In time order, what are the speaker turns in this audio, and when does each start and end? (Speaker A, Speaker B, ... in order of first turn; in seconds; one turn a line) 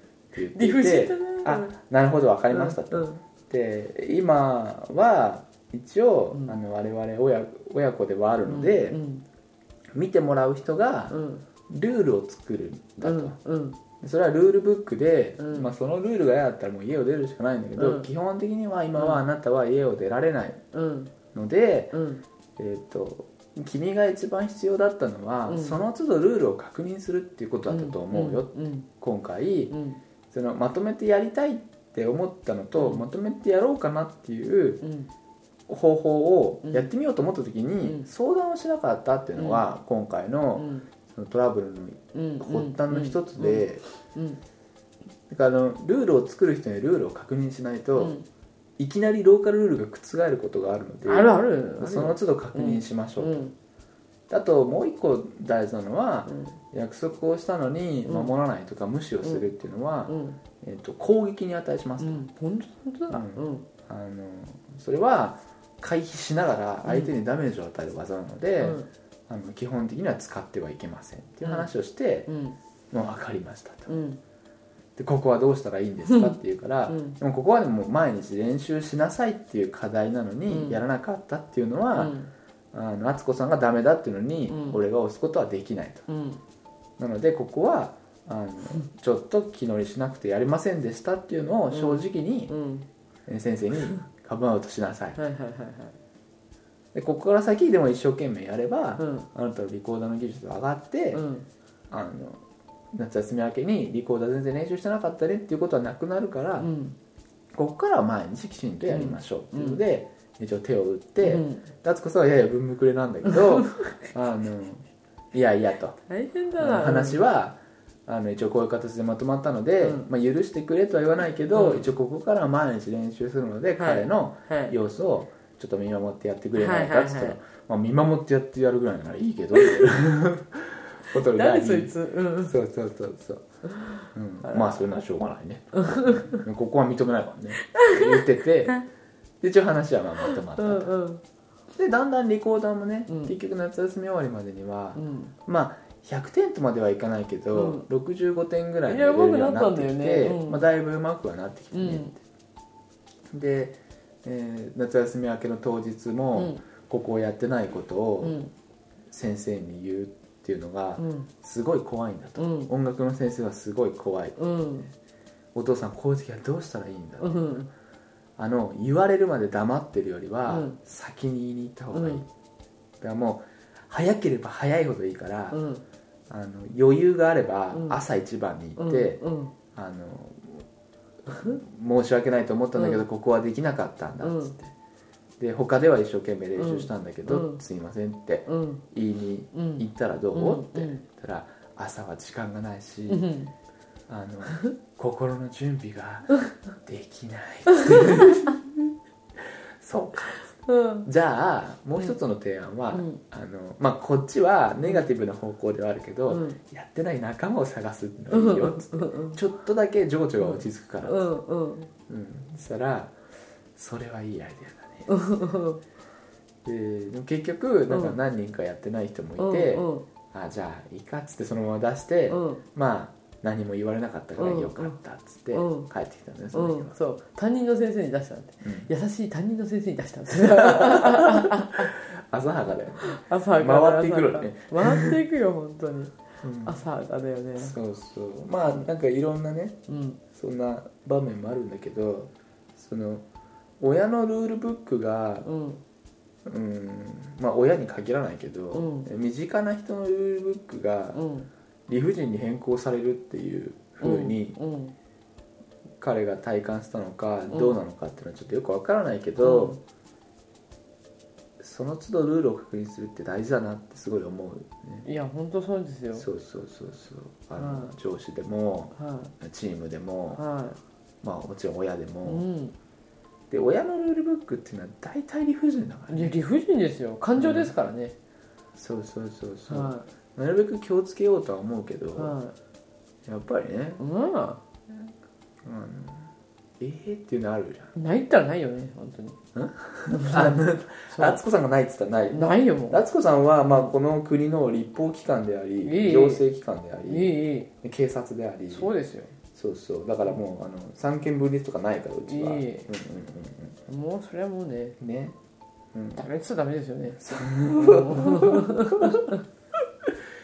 Speaker A: 0.3-9.0
Speaker B: 0.5-1.8
Speaker B: 2.5-3.2
Speaker B: 8.4-9.2
Speaker A: 9.9-13.4
Speaker B: 11.1-11.4
Speaker B: 13.0-13.8
Speaker A: 14.0-20.6
Speaker B: 15.4-15.7
Speaker B: 17.8-18.1
Speaker B: 18.9-19.2
Speaker B: 20.7-21.1
Speaker A: 21.3-22.0
Speaker B: 21.9-22.2
Speaker A: 22.6-29.8
Speaker B: 25.5-25.8
Speaker B: 27.7-28.9
Speaker B: 29.7-30.0
Speaker A: 30.3-34.8
Speaker B: 32.8-33.1
Speaker B: 34.8-35.1
Speaker A: 35.7-43.8
Speaker B: 36.6-36.9
Speaker B: 39.4-39.6
Speaker B: 40.5-40.9
Speaker B: 42.1-44.4
Speaker A: 45.3-48.2
Speaker B: 48.0-48.2
Speaker A: 48.8-53.5
Speaker B: 51.0-53.5
Speaker A: 54.3-62.3
Speaker B: 56.3-56.6
Speaker B: 58.0-58.3
Speaker B: 60.1-60.4
Speaker B: 62.0-63.7
Speaker A: 63.1-72.3
Speaker B: 66.8-67.1
Speaker B: 68.6-68.9
Speaker B: 71.4-71.7
Speaker B: 72.3-72.6
Speaker A: 72.9-74.0
Speaker B: 73.9-74.2
Speaker A: 75.0-82.2
Speaker B: 76.1-76.4
Speaker B: 76.9-77.2
Speaker B: 80.5-80.8
Speaker B: 81.9-82.3
Speaker A: 82.7-86.1
Speaker B: 84.5-84.8
Speaker B: 86.1-86.4
Speaker A: 87.0-92.5
Speaker B: 91.7-92.8
Speaker A: 93.3-95.2
Speaker B: 95.2-96.0
Speaker A: 96.9-101.2
Speaker B: 99.0-99.3
Speaker B: 101.1-101.5
Speaker A: 101.9-106.7
Speaker B: 106.6-107.0
Speaker A: 107.5-116.0
Speaker B: 108.9-109.8
Speaker B: 111.2-111.7
Speaker B: 113.3-113.9
Speaker B: 116.1-117.2
Speaker A: 116.6-133.4
Speaker B: 119.8-120.1
Speaker B: 121.5-121.9
Speaker B: 123.8-124.8
Speaker B: 126.5-127.4
Speaker B: 129.6-129.8
Speaker B: 131.1-132.5
Speaker B: 133.8-134.8
Speaker A: 134.1-138.8
Speaker B: 135.8-136.4
Speaker B: 137.7-138.2
Speaker A: 139.4-140.9
Speaker B: 140.5-141.2
Speaker A: 141.8-152.2
Speaker B: 143.1-143.3
Speaker B: 144.9-145.3
Speaker B: 147.5-147.8
Speaker B: 148.9-150.7
Speaker B: 151.7-152.1
Speaker A: 153.3-158.4
Speaker B: 156.3-156.6
Speaker B: 158.2-158.5
Speaker A: 159.1-164.4
Speaker B: 161.0-161.3
Speaker B: 162.4-162.7
Speaker B: 164.4-164.9
Speaker A: 165.5-167.6
Speaker B: 167.2-167.7
Speaker A: 168.4-172.3
Speaker B: 170.5-170.8
Speaker B: 171.9-172.2
Speaker A: 173.0-175.6
Speaker B: 175.5-175.8
Speaker A: 176.3-179.2
Speaker B: 177.7-178.0
Speaker B: 178.8-179.5
Speaker A: 179.7-180.7
Speaker A: 181.3-184.7
Speaker B: 182.7-183.0
Speaker B: 184.2-184.6
Speaker A: 185.4-193.3
Speaker B: 186.6-187.6
Speaker B: 188.5-188.8
Speaker B: 189.5-191.0
Speaker B: 193.1-193.5
Speaker A: 194.1-198.7
Speaker B: 197.7-198.5
Speaker A: 199.4-200.4
Speaker B: 200.6-201.1
Speaker A: 201.0-211.3
Speaker B: 202.9-203.2
Speaker B: 206.3-206.6
Speaker B: 208.3-209.4
Speaker B: 210.4-211.9
Speaker A: 212.1-213.2
Speaker A: 213.7-215.3
Speaker B: 215.1-215.8
Speaker A: 216.6-226.9
Speaker B: 217.9-218.2
Speaker B: 219.4-220.1
Speaker B: 222.3-222.6
Speaker B: 224.4-225.0
Speaker B: 225.5-225.9
Speaker B: 226.5-231.9
Speaker A: 228.6-228.9
Speaker A: 230.3-235.2
Speaker B: 233.0-237.8
Speaker A: 236.4-236.8
Speaker A: 237.6-243.2
Speaker B: 239.9-240.2
Speaker A: 243.8-245.5
Speaker B: 245.4-245.8
Speaker A: 246.4-251.2
Speaker B: 248.7-249.1
Speaker B: 251.1-251.5
Speaker A: 251.9-254.6
Speaker B: 254.0-254.9
Speaker A: 256.0-259.8
Speaker B: 257.5-257.8
Speaker B: 259.4-259.8
Speaker A: 261.6-265.1
Speaker B: 265.0-266.3
Speaker A: 266.1-270.4
Speaker B: 267.6-267.9
Speaker B: 268.9-269.3
Speaker B: 270.4-270.8
Speaker A: 271.2-272.5
Speaker B: 272.2-272.7
Speaker A: 273.5-276.3
Speaker B: 276.1-278.1
Speaker A: 277.4-277.7
Speaker A: 278.7-282.4
Speaker B: 279.7-280.1
Speaker B: 282.2-282.5
Speaker A: 283.2-284.0
Speaker B: 284.0-284.6
Speaker A: 285.6-287.9
Speaker B: 287.9-289.4
Speaker A: 289.5-298.9
Speaker B: 290.1-291.4
Speaker B: 292.3-293.0
Speaker B: 293.6-293.9
Speaker B: 295.8-296.4
Speaker B: 297.1-297.7
Speaker B: 298.7-299.3
Speaker A: 299.5-303.8
Speaker B: 302.3-302.9
Speaker B: 303.9-305.0
Speaker A: 305.0-305.4
Speaker A: 305.9-306.2
Speaker B: 306.1-309.4
Speaker A: 307.2-309.3